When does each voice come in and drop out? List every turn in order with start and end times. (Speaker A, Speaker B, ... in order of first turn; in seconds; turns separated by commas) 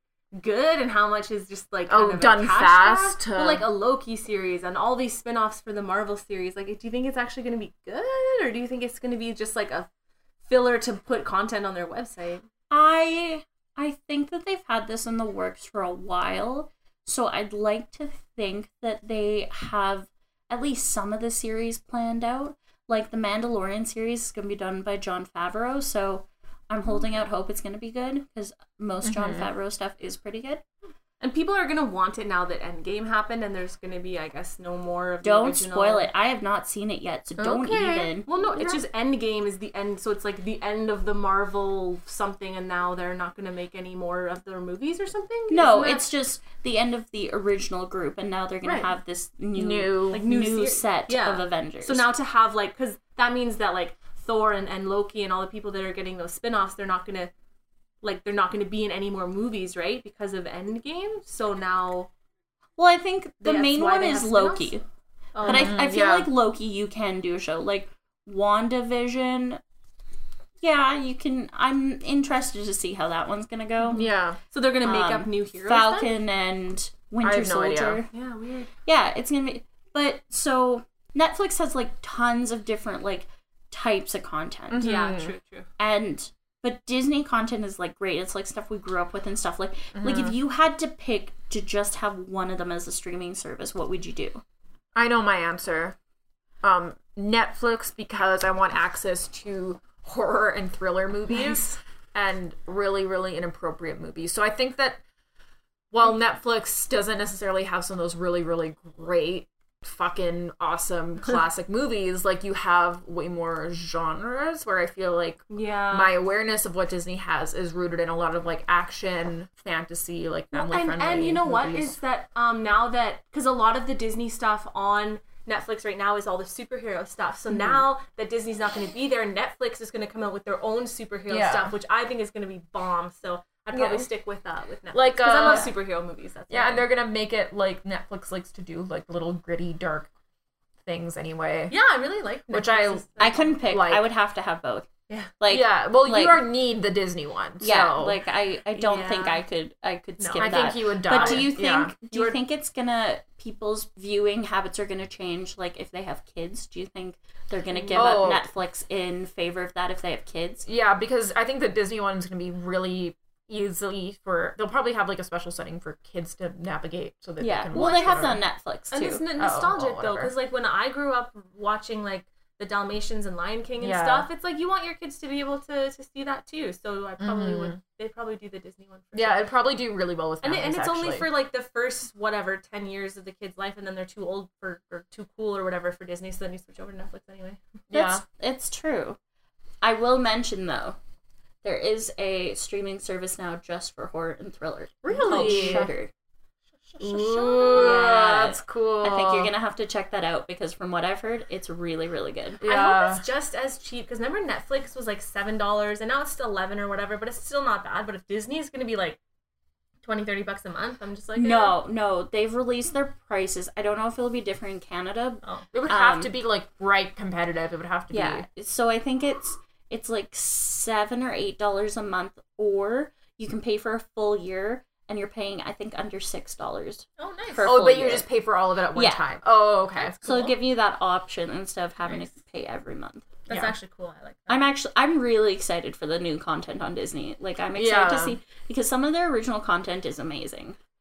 Speaker A: 0.3-9.9, Speaker B: 1.9-3.6, Speaker A: 10.4-12.4, Speaker C: 12.7-30.6, Speaker B: 29.0-29.5, Speaker A: 31.2-36.1, Speaker C: 35.2-38.3, Speaker B: 37.4-38.8, Speaker A: 38.2-46.1, Speaker C: 45.5-52.1, Speaker A: 48.6-48.9, Speaker B: 49.5-50.2, Speaker A: 50.1-57.3, Speaker A: 58.0-62.1, Speaker C: 62.8-64.8, Speaker A: 63.4-64.7, Speaker A: 65.3-65.8, Speaker B: 65.4-66.3, Speaker C: 65.5-69.6, Speaker C: 70.6-74.0, Speaker A: 73.8-76.2, Speaker B: 73.9-74.4, Speaker C: 74.8-78.1, Speaker B: 77.2-78.0, Speaker A: 78.1-78.7, Speaker C: 78.8-85.0, Speaker B: 84.7-85.3, Speaker A: 84.8-85.7, Speaker C: 85.8-94.4, Speaker B: 89.9-90.3, Speaker B: 94.9-96.0, Speaker B: 96.6-105.0, Speaker B: 105.9-122.0, Speaker A: 115.5-116.2, Speaker A: 120.5-136.9, Speaker B: 127.5-127.8, Speaker B: 131.3-131.7, Speaker B: 133.7-134.1, Speaker B: 134.9-135.7, Speaker C: 135.4-135.7, Speaker B: 136.5-140.1, Speaker B: 140.8-141.8, Speaker A: 141.7-143.6, Speaker B: 142.5-144.1, Speaker C: 143.2-144.9, Speaker C: 145.4-146.4, Speaker B: 145.5-148.2, Speaker C: 147.6-160.7, Speaker A: 148.7-149.4, Speaker A: 150.2-151.5, Speaker B: 150.3-151.9, Speaker A: 152.1-152.4, Speaker A: 157.7-158.2, Speaker B: 157.9-158.5, Speaker B: 160.7-168.4, Speaker C: 167.4-169.2, Speaker A: 167.7-168.2, Speaker A: 168.9-179.4, Speaker B: 169.4-170.3, Speaker B: 173.8-174.3, Speaker B: 177.2-177.8, Speaker B: 179.1-181.3, Speaker A: 180.4-187.6, Speaker B: 187.9-188.2, Speaker C: 187.9-189.2, Speaker C: 189.8-191.0, Speaker C: 191.6-196.1, Speaker B: 195.0-195.9, Speaker A: 195.1-195.9, Speaker A: 196.9-198.1, Speaker B: 197.0-199.5, Speaker C: 197.8-202.6, Speaker B: 202.6-203.2, Speaker A: 202.6-209.2, Speaker A: 210.0-211.8, Speaker C: 211.3-216.3, Speaker B: 215.7-218.5, Speaker C: 218.1-228.3, Speaker A: 227.2-227.7, Speaker B: 227.6-230.1, Speaker C: 228.9-229.3, Speaker A: 229.9-230.6, Speaker C: 230.2-233.2, Speaker A: 233.5-234.7, Speaker C: 234.5-240.8, Speaker B: 237.7-238.4